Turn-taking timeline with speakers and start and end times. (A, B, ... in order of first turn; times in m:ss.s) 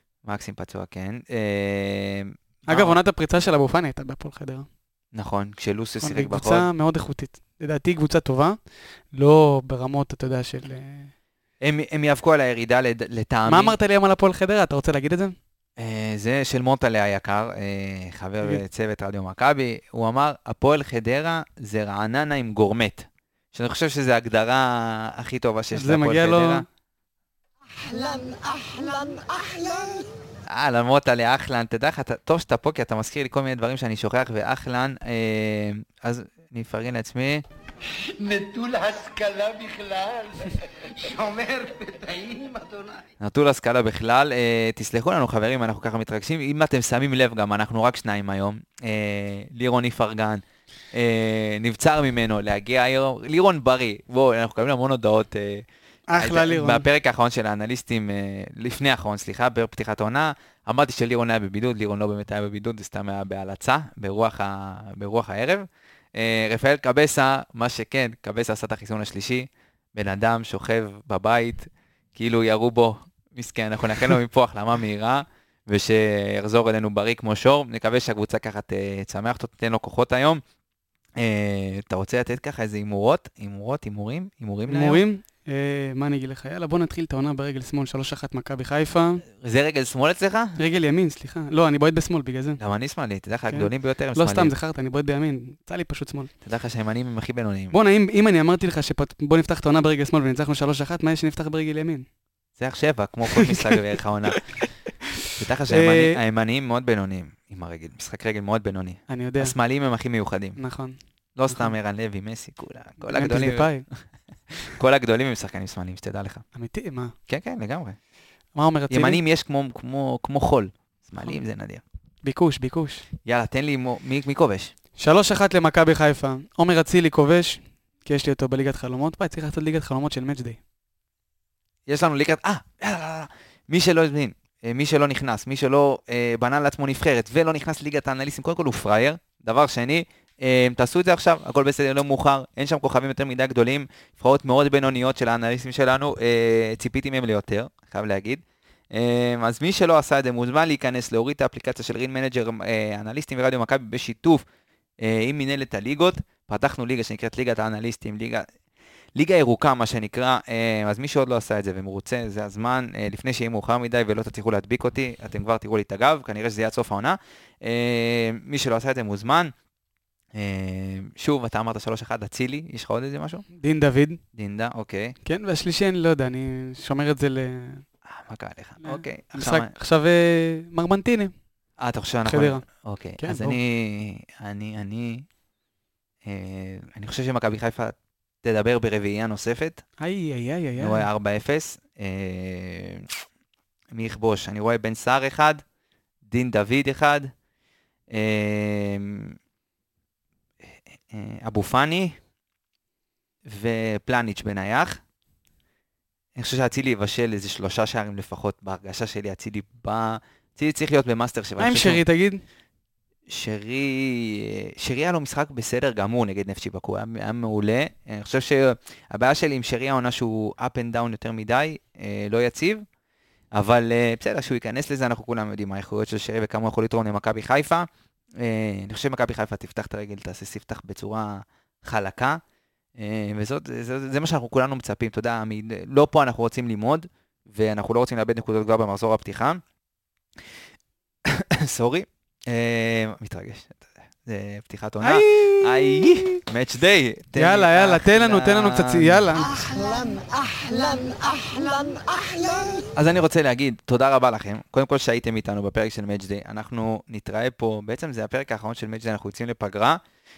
0:00.2-0:03.0 A
0:02.7-0:04.7 B
0:05.1-0:06.7 A
0:06.0-0:08.6 B
0:09.1-0:11.1 B
0:11.6-0:13.8 A
0:13.5-0:15.4 B
0:15.8-0:26.7 A
0:25.7-0:26.7 B
0:27.7-0:30.1 C
0:30.5-0:37.4 A
0:38.1-0:43.1 C
0:43.2-0:55.6 A
0:56.1-0:56.9 B
0:56.2-1:20.4 A
1:21.2-1:25.0 A
1:24.7-1:29.2 B
1:29.4-1:30.6 A
1:30.6-1:32.6 B
1:32.6-1:34.5 A
1:33.5-1:36.3 B
1:36.4-1:37.8 A
1:37.7-1:42.1 B
1:42.6-1:44.7 A
1:45.3-1:50.6 A
1:45.7-1:46.2 B
1:49.1-1:49.6 B
1:50.6-1:51.0 B
1:51.4-1:54.0 A
1:53.1-1:53.9 B
1:54.6-1:56.4 A
1:56.5-1:57.1 B
1:57.3-1:58.0 A
1:58.6-1:59.2 B
1:58.9-2:01.8 A
2:02.2-2:03.0 B
2:03.2-2:04.7 A
2:05.0-2:10.6 B
2:11.9-2:34.4 A
2:35.0-2:38.5 A
2:39.2-2:49.5 A
2:50.3-2:53.5 A
2:53.5-2:54.2 B
2:54.3-2:55.2 A
2:55.2-2:57.8 B
2:58.1-2:59.7 A
2:58.8-3:01.3 B
3:01.8-3:05.3 A
3:02.3-3:02.7 B
3:03.2-3:03.6 B
3:06.3-3:09.8 A
3:10.0-3:11.1 B
3:10.8-3:13.0 A
3:13.9-3:15.6 A
3:16.3-3:17.3 A
3:18.1-3:19.4 A
3:21.1-3:22.2 A
3:23.5-3:25.0 A
3:26.4-3:32.0 A
3:31.6-3:32.4 B
3:33.3-3:42.9 A
3:43.5-3:47.9 A
3:48.4-3:52.4 A
3:53.0-3:59.6 A
4:01.3-4:09.3 A
4:05.0-4:06.4 B
4:07.4-4:09.5 B
4:09.4-4:12.9 C
4:13.0-4:20.0 A